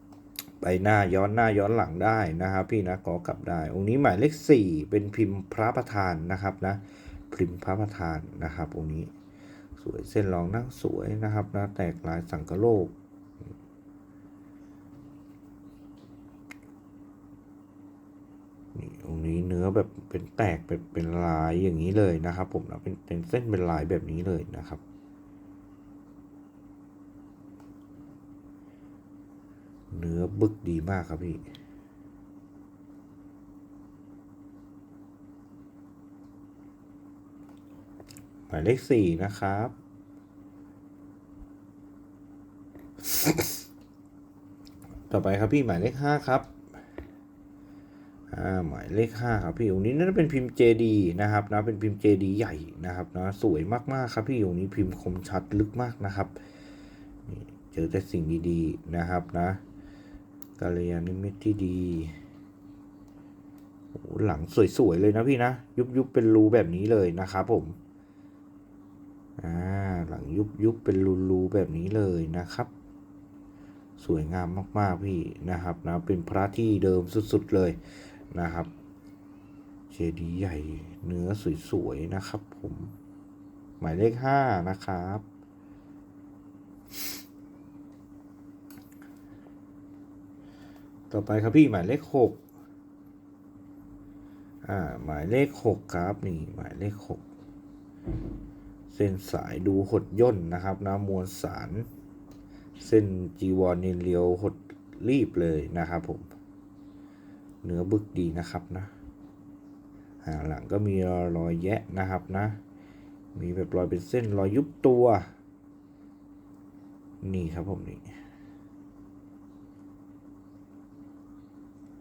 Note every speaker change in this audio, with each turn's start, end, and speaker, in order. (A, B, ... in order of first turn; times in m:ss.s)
0:00.6-0:09.1 A
0:09.8-0:12.9 A
0:18.7-0:24.8 A
0:29.9-0:31.4 A
0:38.5-0:39.7 A
0:43.0-0:43.4 A
0:45.1-0:46.5 A
0:48.3-0:56.3 A
0:57.2-0:59.6 A
1:00.6-1:02.2 A
1:03.9-1:07.8 A
1:09.4-1:12.7 A
1:14.0-1:17.8 A
1:18.3-1:18.7 A
1:19.9-1:22.9 A
1:23.8-1:25.2 A
1:31.1-1:32.4 A
1:34.6-1:37.2 A
1:38.9-1:41.9 A
1:42.8-1:46.3 A
1:47.6-1:48.9 A
1:50.2-1:52.6 A
1:53.3-1:55.3 A
1:57.2-1:58.1 A